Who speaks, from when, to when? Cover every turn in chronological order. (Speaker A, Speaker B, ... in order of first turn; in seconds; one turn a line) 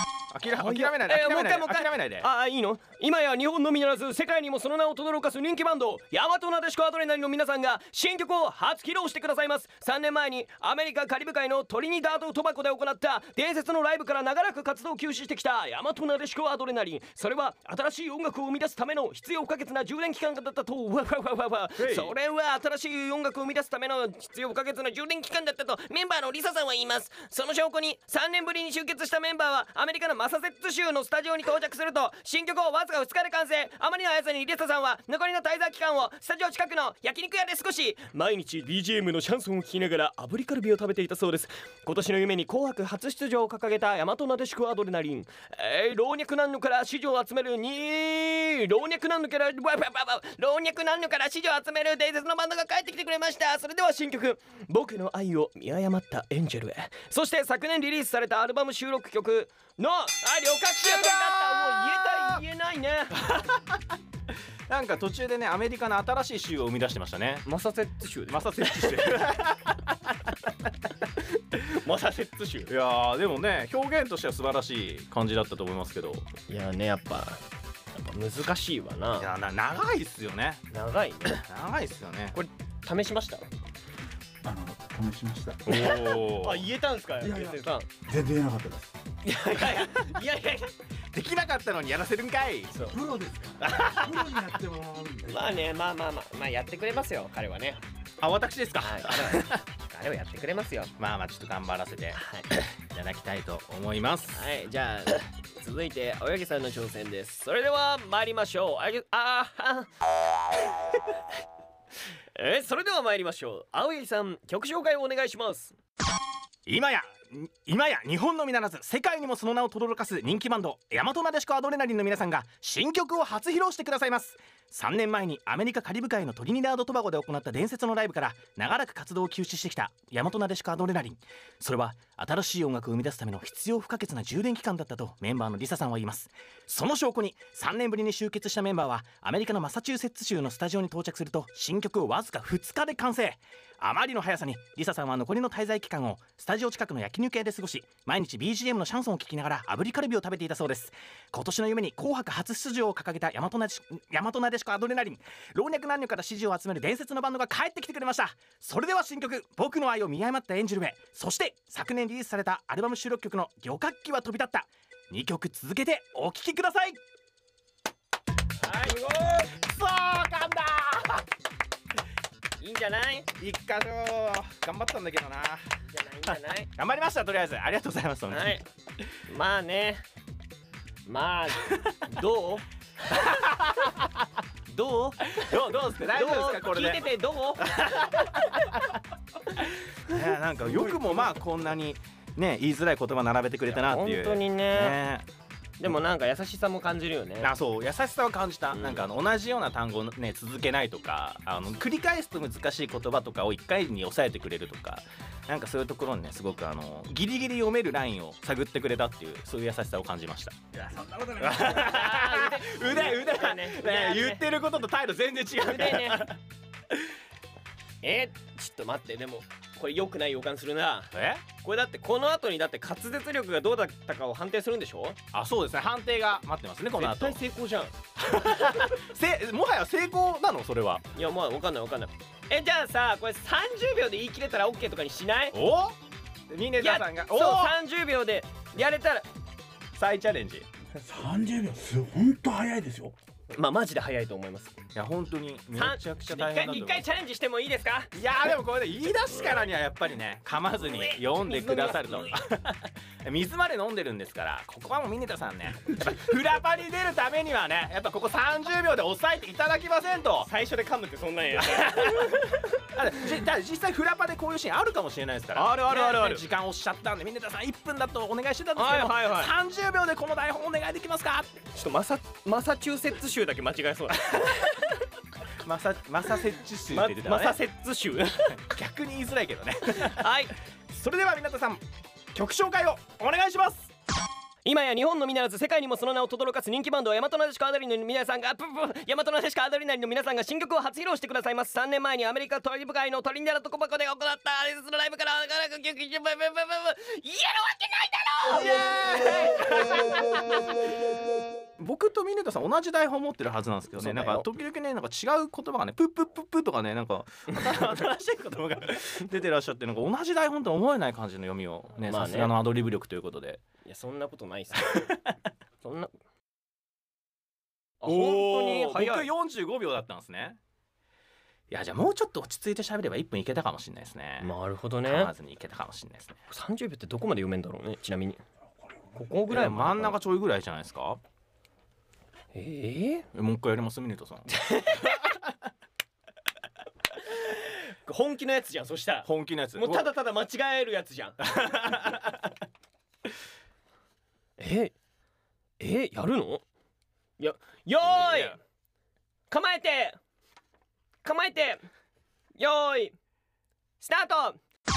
Speaker A: 0.3-2.2
Speaker B: 0.5-63.3
Speaker A: 21.8-22.1
Speaker A: 60.7-62.4
Speaker A: 63.2-63.8
Speaker A: 64.7-67.4
Speaker B: 67.4-69.2
Speaker A: 68.3-70.3
Speaker B: 71.5-72.7
Speaker A: 72.7-76.3
Speaker B: 76.5-77.4
Speaker B: 77.9-79.3
Speaker A: 79.2-80.6
Speaker B: 80.7-81.4
Speaker A: 81.3-82.4
Speaker B: 82.3-83.5
Speaker C: 84.4-85.8
Speaker A: 85.6-86.7
Speaker B: 85.7-87.9
Speaker C: 87.2-87.5
Speaker C: 88.1-88.9
Speaker B: 89.2-90.7
Speaker A: 91.1-92.8
Speaker B: 92.7-93.0
Speaker C: 92.9-95.5
Speaker A: 93.6-94.4
Speaker B: 95.2-97.8
Speaker A: 98.2-99.6
Speaker B: 98.8-100.9
Speaker A: 101.0-104.5
Speaker B: 102.1-102.5
Speaker B: 104.3-109.9
Speaker B: 112.3-115.7
Speaker A: 116.7-167.0
Speaker B: 168.6-169.6
Speaker A: 169.5-171.2
Speaker B: 172.6-173.3
Speaker A: 173.4-175.6
Speaker B: 175.9-176.7
Speaker A: 176.3-178.6
Speaker B: 178.3-178.6
Speaker B: 179.3-180.0
Speaker B: 181.1-183.2
Speaker A: 181.6-181.9
Speaker A: 183.1-184.1
Speaker B: 184.7-185.5
Speaker A: 185.3-187.1
Speaker B: 186.1-188.5
Speaker A: 187.7-188.9
Speaker A: 189.5-195.2
Speaker B: 193.7-195.0
Speaker B: 195.8-197.5
Speaker A: 197.4-210.6
Speaker B: 198.7-199.1
Speaker A: 211.2-216.4
Speaker B: 211.6-214.4
Speaker B: 215.6-216.2
Speaker B: 218.0-225.2
Speaker A: 221.1-221.4
Speaker A: 225.3-227.4
Speaker B: 226.9-227.9
Speaker A: 228.2-231.0
Speaker B: 228.6-228.9
Speaker B: 231.1-235.6
Speaker A: 235.5-236.0
Speaker A: 236.5-237.8
Speaker B: 236.8-239.2
Speaker A: 239.9-240.7
Speaker C: 241.0-243.1
Speaker B: 243.5-244.8
Speaker A: 244.9-247.1
Speaker B: 245.7-248.1
Speaker A: 248.1-260.5
Speaker B: 250.8-252.4
Speaker B: 260.4-262.7
Speaker A: 261.6-271.5
Speaker B: 265.5-266.4
Speaker B: 268.8-269.5
Speaker B: 271.7-275.0
Speaker A: 275.6-277.6
Speaker B: 276.9-278.5
Speaker A: 278.5-280.3
Speaker B: 279.9-280.5
Speaker A: 280.9-281.8
Speaker A: 282.3-283.9
Speaker B: 284.6-299.3
Speaker A: 298.5-300.8
Speaker A: 301.8-313.6
Speaker B: 303.9-304.4
Speaker B: 312.0-312.6
Speaker B: 313.8-315.1
Speaker B: 315.8-316.1
Speaker B: 318.0-319.3
Speaker A: 318.1-320.6
Speaker A: 321.7-324.5
Speaker B: 324.4-325.3
Speaker A: 325.0-326.4
Speaker B: 326.5-328.4
Speaker B: 329.1-330.2
Speaker A: 329.5-331.2
Speaker B: 332.5-333.2
Speaker A: 333.3-334.5
Speaker B: 334.5-335.3
Speaker B: 337.3-341.4
Speaker A: 339.2-340.1
Speaker A: 341.4-342.5
Speaker B: 344.6-344.9
Speaker B: 345.8-346.6
Speaker B: 347.4-348.6
Speaker A: 348.0-348.6
Speaker B: 349.5-350.2
Speaker B: 351.2-351.9
Speaker B: 352.6-353.1
Speaker B: 354.0-354.6